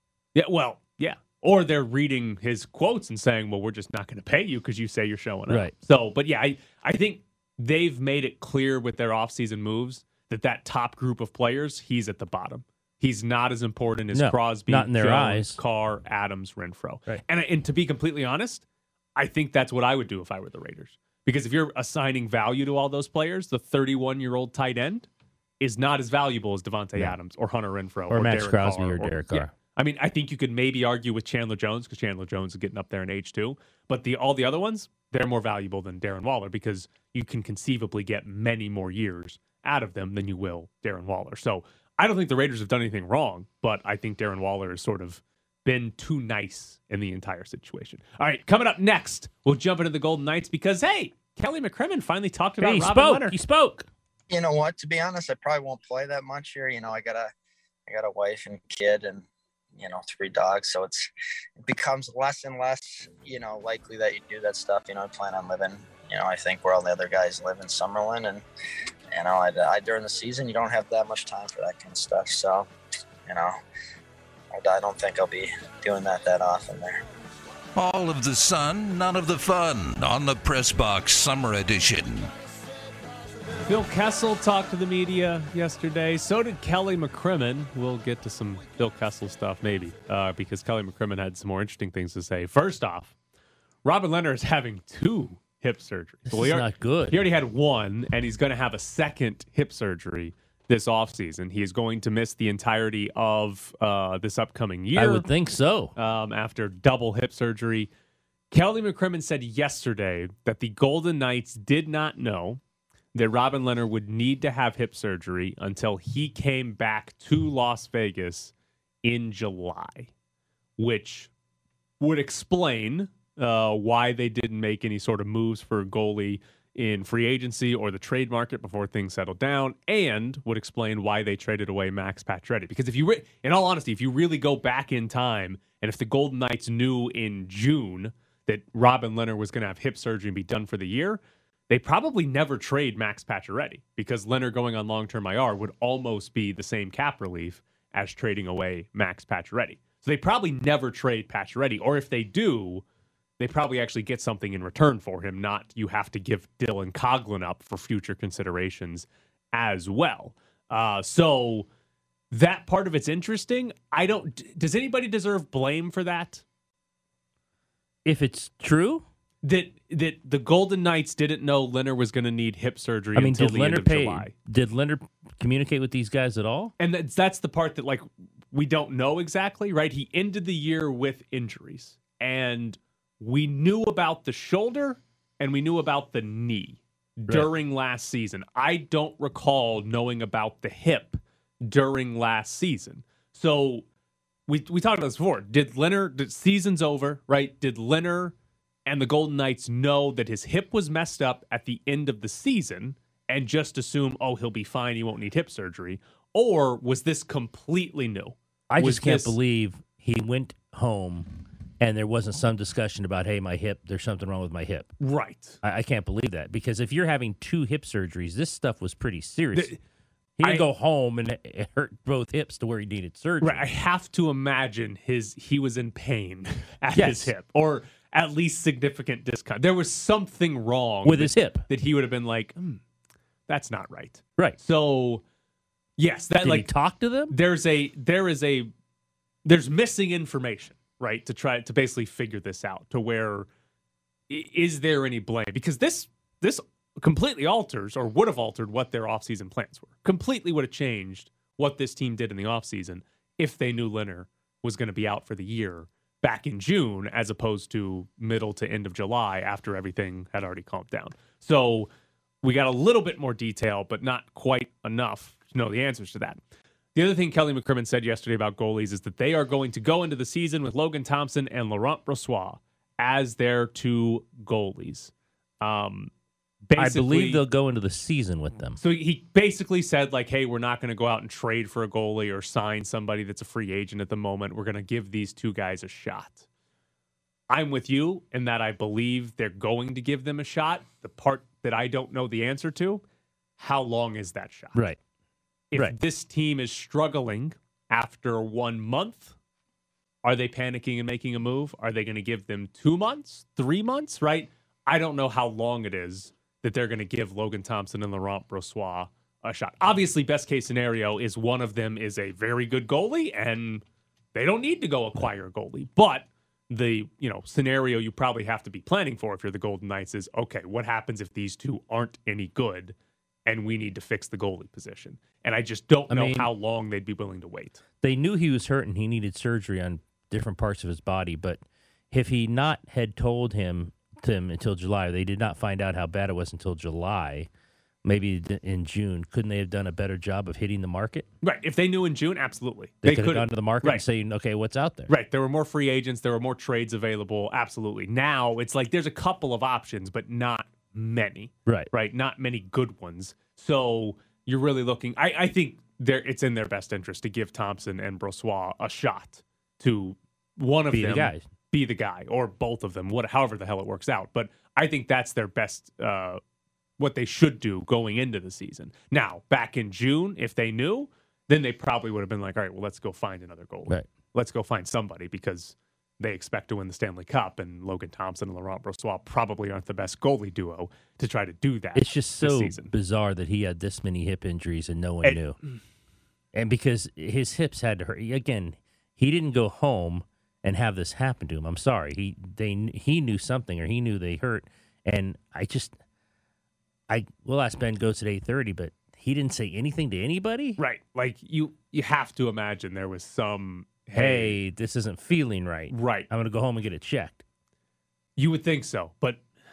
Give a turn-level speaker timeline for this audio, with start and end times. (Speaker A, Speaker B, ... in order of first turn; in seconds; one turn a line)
Speaker A: 0.3-18.6
Speaker B: 5.5-5.7
Speaker B: 14.1-15.6
Speaker A: 19.2-25.1
Speaker A: 25.6-53.4
Speaker B: 28.1-29.5
Speaker B: 52.6-53.9
Speaker C: 54.3-57.3
Speaker C: 57.9-59.2
Speaker C: 59.8-61.1
Speaker C: 61.6-68.4
Speaker C: 69.1-72.7
Speaker C: 73.3-73.5
Speaker C: 74.5-77.0
Speaker D: 77.8-82.3
Speaker A: 83.6-93.1
Speaker A: 93.8-105.3
Speaker B: 96.3-97.3
Speaker B: 105.0-105.9
Speaker A: 106.0-107.9
Speaker A: 108.5-112.6
Speaker A: 113.1-118.5
Speaker A: 119.0-120.1
Speaker A: 120.8-121.3
Speaker A: 122.0-152.8
Speaker A: 153.4-161.7
Speaker A: 162.3-166.4
Speaker B: 168.1-169.1
Speaker A: 169.4-174.3
Speaker B: 173.2-176.7
Speaker A: 176.8-193.8
Speaker A: 194.5-198.3
Speaker A: 198.9-209.4
Speaker B: 208.7-214.9
Speaker A: 215.0-215.6
Speaker B: 215.6-219.7
Speaker B: 220.4-223.6
Speaker A: 223.4-232.8
Speaker B: 226.9-227.3
Speaker B: 231.1-231.6
Speaker A: 233.5-235.2
Speaker A: 236.0-236.7
Speaker B: 236.4-237.3
Speaker A: 237.3-238.7
Speaker A: 239.4-243.5
Speaker A: 244.3-261.9
Speaker A: 262.4-266.4
Speaker A: 266.9-276.1
Speaker A: 276.6-277.4
Speaker B: 276.8-278.8
Speaker A: 278.8-286.4
Speaker A: 287.5-293.0
Speaker A: 293.6-294.8
Speaker B: 294.7-295.0
Speaker A: 295.7-299.4
Speaker A: 300.2-322.9
Speaker A: 323.5-327.8
Speaker B: 326.1-326.5
Speaker B: 328.0-337.5
Speaker B: 338.0-341.3
Speaker A: 341.4-344.0
Speaker B: 343.0-345.1
Speaker A: 345.1-366.4
Speaker B: 360.9-361.5
Speaker A: 367.0-382.9
Speaker B: 381.9-385.6
Speaker A: 385.2-385.8
Speaker B: 386.5-395.9
Speaker B: 397.1-400.8
Speaker A: 400.8-404.6
Speaker B: 404.1-407.4
Speaker A: 405.9-406.3
Speaker A: 408.4-409.4